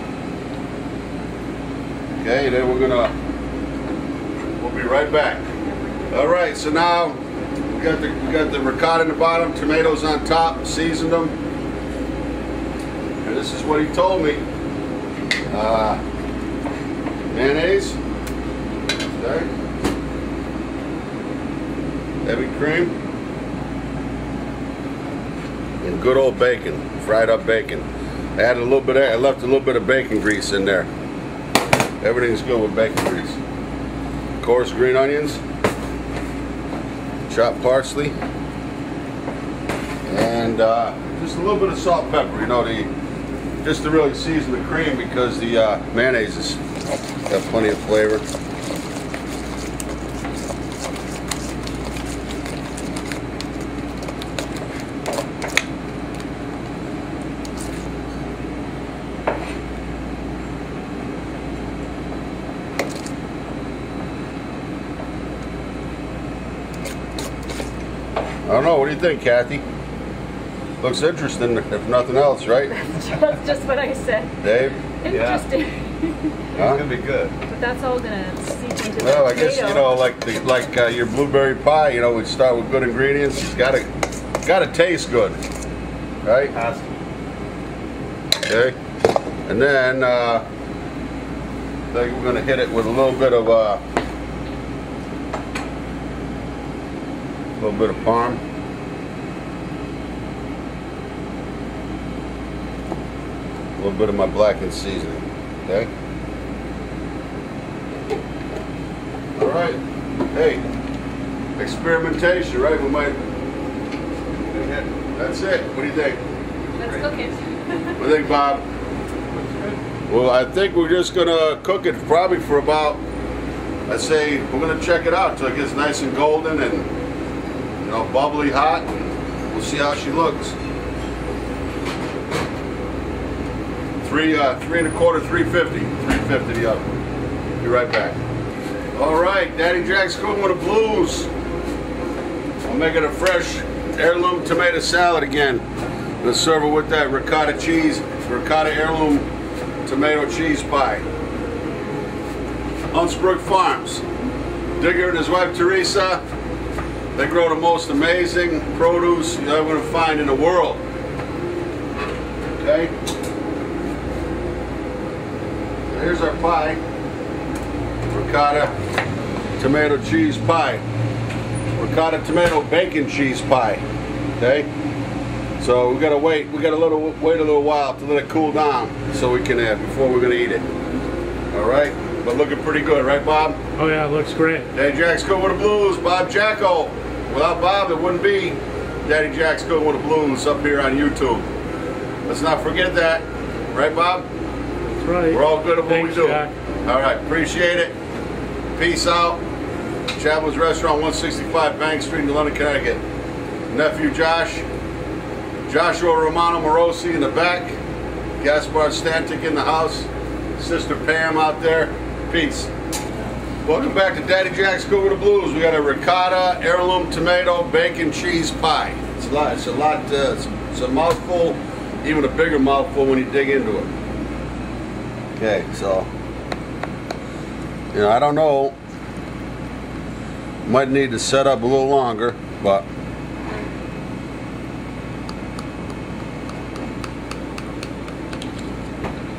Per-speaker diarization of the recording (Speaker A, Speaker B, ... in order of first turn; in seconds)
Speaker A: 2.2-3.1, 4.6-5.5, 6.1-7.2, 7.7-11.3, 13.2-14.4, 15.5-16.0, 17.3-18.0, 19.1-19.5, 22.2-22.9, 25.8-27.9, 28.4-30.9, 32.0-33.4, 34.4-35.4, 37.3-38.1, 40.0-42.9, 43.6-46.6, 47.3-48.2, 68.5-69.6, 70.8-72.7, 74.4-74.8, 76.5-76.8, 79.0-83.8, 84.4-85.4, 86.2-86.5, 88.5-88.7, 89.5-90.4, 91.9-93.8, 97.6-98.4, 103.8-105.9, 109.3-109.8, 110.3-110.6, 111.6-113.2, 114.5-116.2, 118.0-118.6, 120.1-123.0, 123.9-126.9, 127.8-130.6, 134.0-136.9, 137.6-138.2, 138.9-141.3, 142.6-145.6, 146.2-149.3, 149.8-151.0, 152.9-154.0, 154.8-156.2, 157.1-160.8, 162.6-162.9, 165.9-166.8, 168.1-168.7, 169.6-170.8, 171.8-173.8, 174.4-174.7, 175.6-180.7, 181.5-183.6, 184.7-191.4, 192.3-194.2, 195.3-197.9, 198.8-199.4, 200.2-203.0, 203.7-204.6, 205.7-207.8, 208.4-212.7, 213.6-223.9, 225.3-226.1, 227.9-228.7, 230.7-232.8
Speaker B: 72.7-76.3, 77.5-80.0, 116.7-118.0
Speaker C: 75.1-75.5, 76.5-77.3, 86.5-86.9, 119.3-119.8
Speaker D: 183.8-184.7, 195.0-196.5